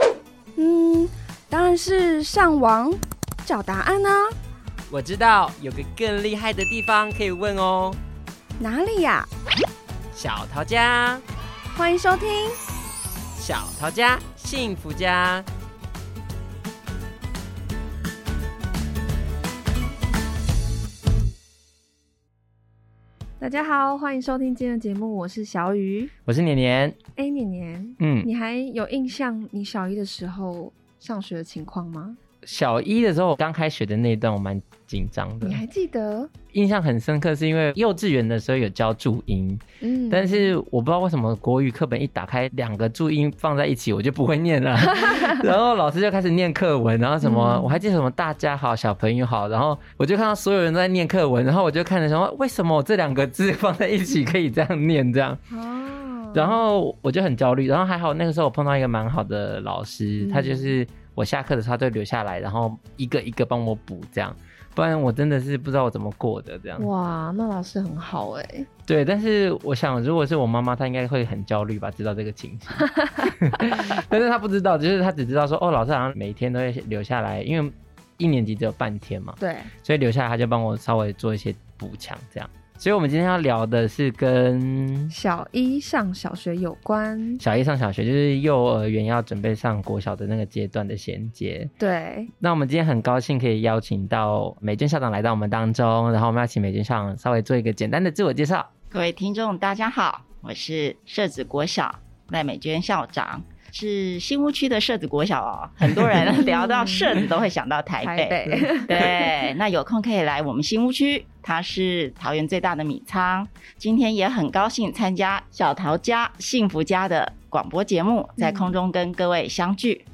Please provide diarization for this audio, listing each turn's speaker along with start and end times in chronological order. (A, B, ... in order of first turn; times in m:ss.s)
0:00.6-0:04.3 A
0:04.9-0:08.0 B
0:08.6-0:09.3 A
0:10.1-0:11.2 B
0:11.7-0:12.6 A
0:13.4-0:15.5 B
0:23.4-0:26.1 A
0:26.2-0:27.0 B
0:27.2-0:32.2 A
0:28.0-0:28.3 B
0:32.4-0:35.6 B
0:35.4-0:36.3 A
0:36.5-0:55.4 B
0:39.8-0:40.5 A
0:44.9-0:45.4 A
0:47.2-0:47.8 A
0:55.5-0:56.6 A
0:56.3-1:06.9 B
1:00.2-1:00.7 A
1:06.8-1:08.7 A
1:08.9-1:25.1 B
1:19.4-1:19.7 A
1:25.1-1:27.4 A
1:27.4-1:31.7 B
1:31.8-1:32.3 A
1:32.4-1:38.7 B
1:38.9-2:00.0 C
1:46.2-1:47.2 A
1:48.0-1:49.5 A
1:58.4-1:58.7 A